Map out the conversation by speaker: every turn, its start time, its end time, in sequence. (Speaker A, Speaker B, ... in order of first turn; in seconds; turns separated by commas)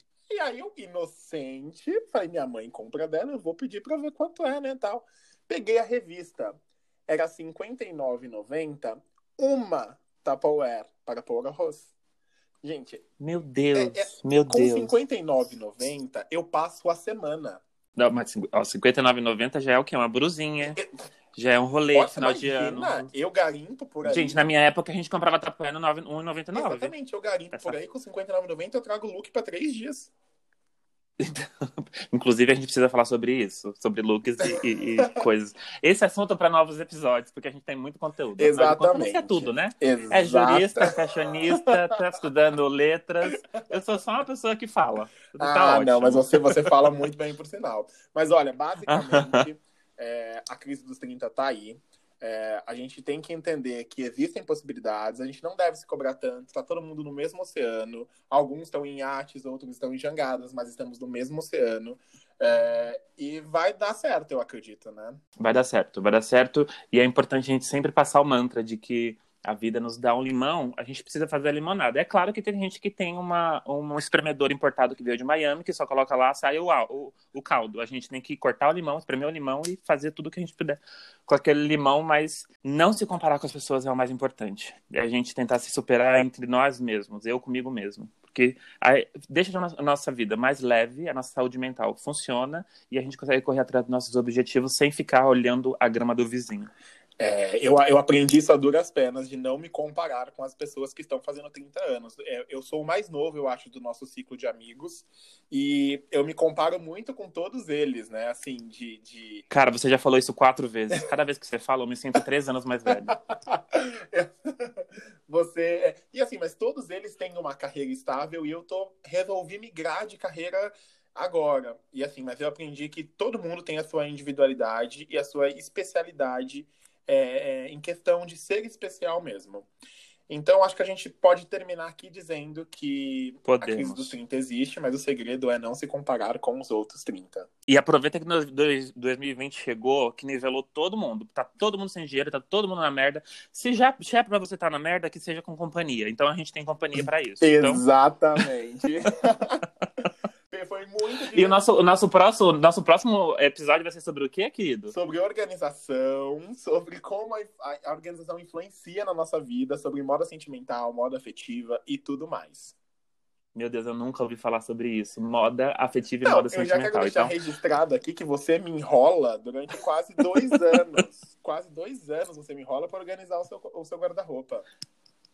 Speaker A: 0.3-6.5, Speaker A: 7.1-11.9, Speaker A: 12.6-13.0, Speaker B: 13.2-14.9, Speaker A: 13.7-17.6, Speaker B: 17.9-20.8, Speaker B: 21.3-23.1, Speaker A: 21.9-24.4, Speaker B: 24.0-26.9, Speaker A: 26.5-30.1, Speaker B: 31.2-46.7, Speaker A: 34.4-35.2, Speaker A: 38.4-40.8, Speaker A: 45.4-65.2, Speaker B: 48.9-49.4, Speaker B: 65.4-96.7, Speaker A: 97.2-109.4, Speaker B: 109.5-113.1, Speaker A: 112.9-129.7, Speaker A: 130.3-137.5, Speaker B: 133.4-134.2, Speaker B: 137.7-147.8, Speaker A: 147.0-149.6, Speaker A: 150.5-151.6, Speaker B: 151.3-154.9, Speaker A: 154.9-162.7, Speaker B: 163.5-167.3, Speaker A: 166.2-174.7